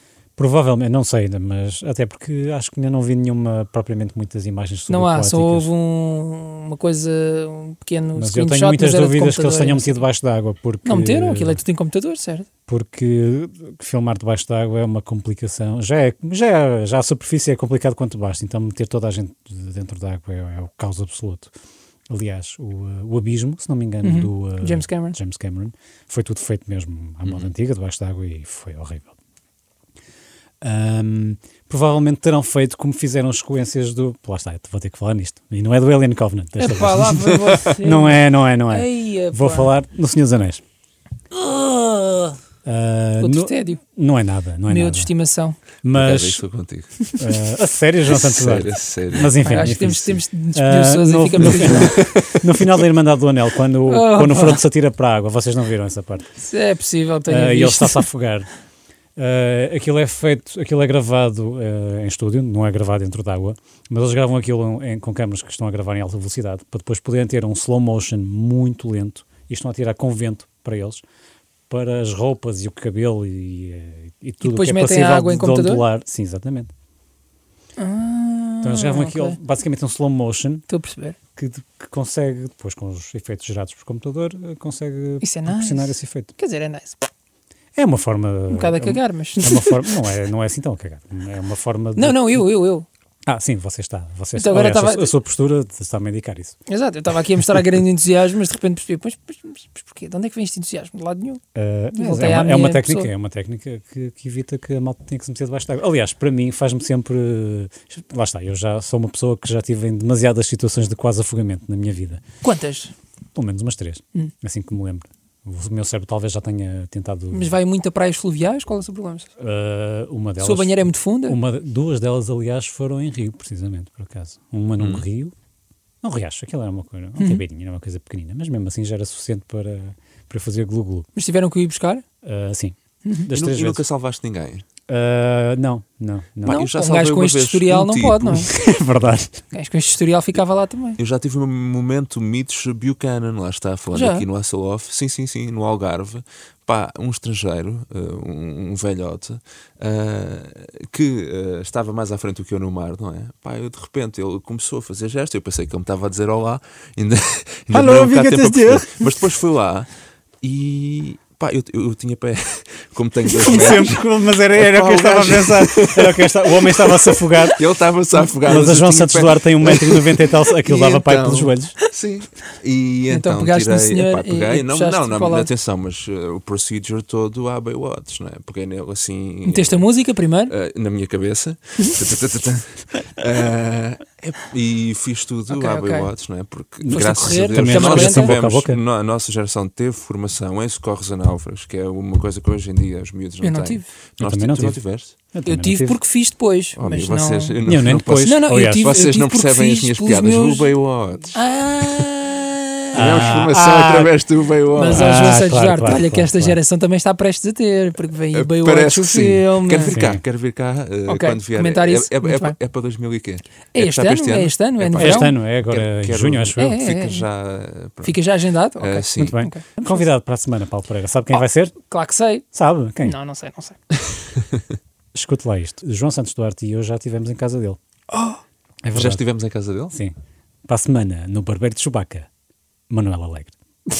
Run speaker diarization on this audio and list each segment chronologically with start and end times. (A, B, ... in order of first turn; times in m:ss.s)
0:00.4-0:05.7 A
0:04.9-0:10.0 B
0:08.2-0:11.6 A
0:10.8-0:12.5 B
0:12.7-0:21.5 A
0:22.1-0:29.1 A
0:24.0-0:25.2 B
0:30.6-0:40.6 A
0:36.6-0:39.7 B
0:41.3-0:45.1 A
0:43.2-0:43.8 B
0:44.7-0:45.6 B
0:45.8-0:46.4 A
0:45.9-0:46.9 C
0:47.2-0:56.3 A
0:48.1-0:49.7 C
0:49.4-0:52.0 B
0:51.6-0:52.5 C
0:53.9-0:54.6 B
0:56.4-0:58.1 B
0:57.3-0:58.5 A
0:59.2-1:11.0 A
1:11.7-1:16.7 A
1:14.4-1:15.9 B
1:17.8-1:19.4 B
1:18.6-1:20.6 A
1:20.7-1:21.2 B
1:21.4-1:26.3 A
1:25.2-1:27.1 B
1:27.8-1:32.2 A
1:28.5-1:29.8 B
1:32.0-1:32.9 B
1:33.3-1:36.6 A
1:34.4-1:35.1 B
1:36.7-1:41.4 B
1:41.6-1:52.2 A
1:42.0-1:43.1 B
1:52.4-1:52.9 B
1:53.4-1:57.5 A
1:57.3-1:59.3 B
1:59.4-2:05.3 A
2:00.4-2:01.4 B
2:04.8-2:05.0 C
2:06.0-2:11.1 A
2:07.2-2:07.4 B
2:11.2-2:12.0 B
2:12.2-2:13.8 A
2:13.3-2:14.6 C
2:14.9-2:16.6 A
2:16.4-2:18.5 B
2:16.5-2:18.5 C
2:18.5-2:19.4 A
2:19.5-2:21.0 B
2:21.0-2:39.9 C
2:23.9-2:24.2 B
2:37.7-2:39.2 A
2:40.4-2:59.8 C
2:43.4-2:47.6 A
2:48.4-2:51.7 A
2:53.1-2:55.5 B
2:59.4-3:00.5 B
3:00.5-3:15.2 C
3:05.5-3:06.1 B
3:06.8-3:08.8 A
3:06.9-3:08.4 B
3:13.4-3:13.9 B
3:14.2-3:14.8 A
3:15.3-3:16.0 A
3:15.5-3:17.5 B
3:16.8-3:21.4 C
3:17.6-3:18.9 A
3:18.2-3:20.8 B
3:21.3-3:23.0 B
3:23.0-3:24.1 A
3:23.0-3:25.3 C
3:24.7-3:30.0 B
3:24.8-3:26.6 A
3:28.3-3:38.2 C
3:29.8-3:30.2 A
3:31.1-3:32.6 B
3:33.7-3:35.4 B
3:35.0-3:36.8 A
3:36.6-3:37.2 B
3:38.0-3:39.6 B
3:38.8-3:39.4 C
3:39.2-3:41.8 A
3:41.8-3:42.4 B
3:42.5-3:43.2 A
3:43.0-3:43.8 B
3:45.1-3:47.8 A
3:48.1-3:48.4 B
3:48.8-3:49.2 A
3:48.9-3:50.0 C
3:50.7-3:52.3 A
3:52.9-3:53.5 A